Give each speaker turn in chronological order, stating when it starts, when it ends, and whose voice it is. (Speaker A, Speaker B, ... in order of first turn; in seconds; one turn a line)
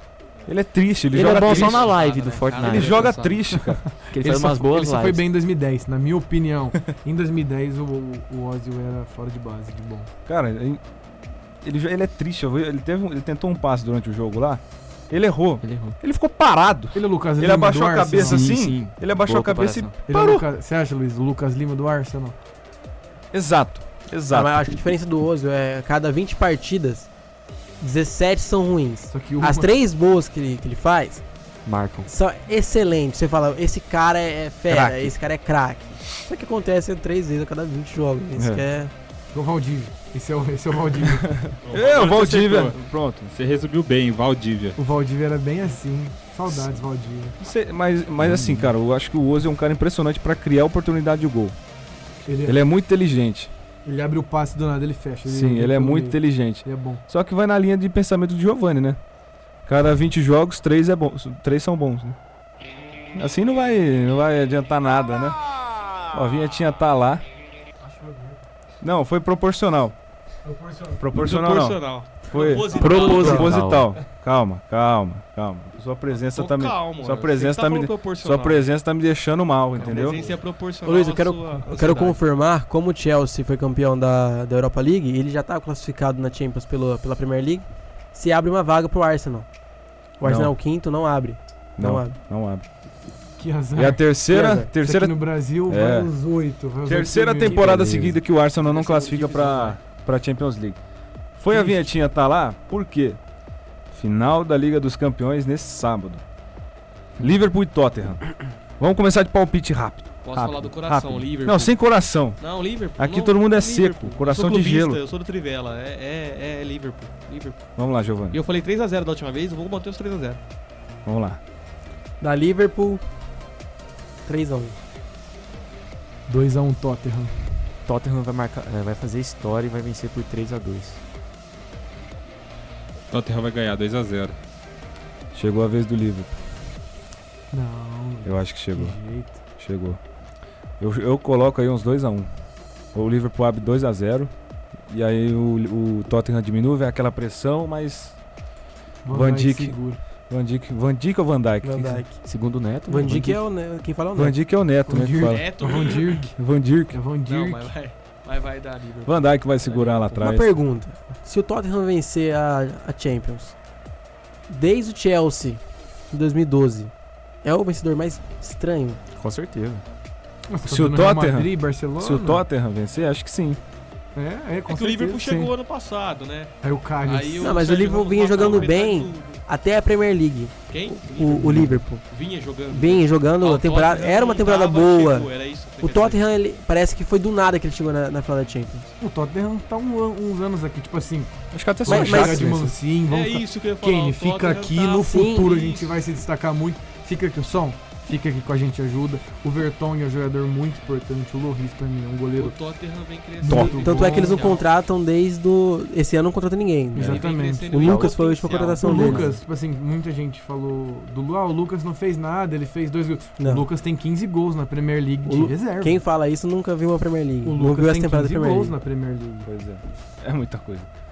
Speaker A: 0.5-1.9
Speaker B: 1.1-3.2
Speaker C: 1.1-3.5
Speaker A: 2.6-3.8
Speaker D: 3.5-10.1
Speaker B: 4.1-5.2
Speaker A: 10.2-10.9
Speaker A: 11.6-20.4
Speaker B: 15.6-16.0
Speaker D: 16.9-18.4
Speaker B: 18.1-20.0
Speaker D: 20.1-22.4
Speaker A: 23.3-24.5
Speaker E: 24.3-27.1
Speaker E: 27.8-31.2
Speaker D: 29.1-29.7
Speaker B: 31.6-32.1
Speaker E: 32.0-38.9
Speaker A: 34.7-35.1
Speaker A: 38.3-38.6
Speaker D: 39.3-41.4
Speaker A: 41.1-43.3
Speaker F: 41.6-42.8
Speaker F: 43.3-44.8
Speaker D: 44.8-47.4
Speaker A: 47.4-51.5
Speaker B: 48.2-48.7
Speaker D: 52.2-52.6
Speaker A: 52.5-53.5
Speaker D: 53.9-57.0
Speaker A: 55.2-59.0
Speaker A: 59.6-62.2
Speaker A: 63.1-65.4
Speaker A: 66.1-67.2
Speaker D: 67.8-68.4
Speaker A: 68.8-70.0
Speaker D: 70.4-71.0
Speaker A: 71.0-80.2
Speaker C: 71.1-73.5
Speaker B: 72.7-73.9
Speaker E: 73.0-73.5
Speaker C: 76.2-78.6
Speaker C: 79.7-82.2
Speaker E: 80.8-89.5
Speaker E: 90.2-92.2
Speaker A: 90.2-90.5
Speaker A: 91.8-92.6
Speaker D: 93.4-94.1
Speaker A: 93.7-96.1
Speaker E: 94.3-94.7
Speaker D: 94.7-97.9
Speaker A: 96.9-100.8
Speaker B: 97.4-98.2
Speaker C: 98.6-99.8
Speaker A: 101.4-103.2
Speaker D: 101.5-101.9
Speaker A: 103.9-106.2
Speaker A: 107.2-108.2
Speaker A: 108.8-112.4
Speaker C: 110.2-111.7
Speaker C: 112.4-117.6
Speaker A: 113.0-115.0
Speaker A: 117.8-118.4
Speaker C: 118.3-120.4
Speaker A: 121.0-121.4
Speaker E: 122.2-123.0
Speaker E: 124.2-124.8
Speaker D: 126.3-127.3
Speaker B: 127.8-131.0
Speaker F: 133.1-134.3
Speaker A: 135.3-136.3
Speaker D: 137.5-139.4
Speaker A: 138.2-138.9
Speaker A: 139.6-140.0
Speaker A: 140.8-142.3
Speaker A: 142.9-144.3
Speaker A: 144.9-148.2
Speaker D: 149.0-150.0
Speaker A: 149.1-149.8
Speaker A: 150.3-152.0
Speaker E: 151.6-152.2
Speaker B: 152.2-153.4
Speaker E: 152.9-154.4
Speaker A: 154.1-155.6
Speaker D: 154.8-156.3
Speaker C: 155.1-156.3
Speaker A: 156.3-157.0
Speaker D: 156.9-157.7
Speaker C: 157.2-160.2
Speaker A: 159.0-160.5
Speaker E: 160.1-163.5
Speaker E: 164.5-166.9
Speaker E: 167.4-169.0
Speaker B: 169.2-169.8
Speaker D: 170.5-172.4
Speaker A: 170.7-173.6
Speaker D: 174.2-175.5
Speaker C: 174.7-179.4
Speaker D: 176.6-177.6
Speaker E: 177.4-182.0
Speaker C: 180.7-186.2
Speaker A: 181.4-181.7
Speaker E: 182.7-188.9
Speaker D: 189.0-202.6
Speaker A: 191.5-192.6
Speaker E: 191.8-192.7
Speaker C: 193.1-195.9
Speaker E: 195.1-195.5
Speaker C: 202.3-204.7
Speaker D: 203.4-204.6
Speaker A: 203.4-203.8
Speaker E: 203.6-209.3
Speaker D: 206.9-208.1
Speaker C: 207.0-209.2
Speaker D: 208.8-216.0
Speaker E: 213.4-213.7
Speaker E: 215.2-218.7
Speaker D: 217.4-219.5
Speaker A: 219.4-220.9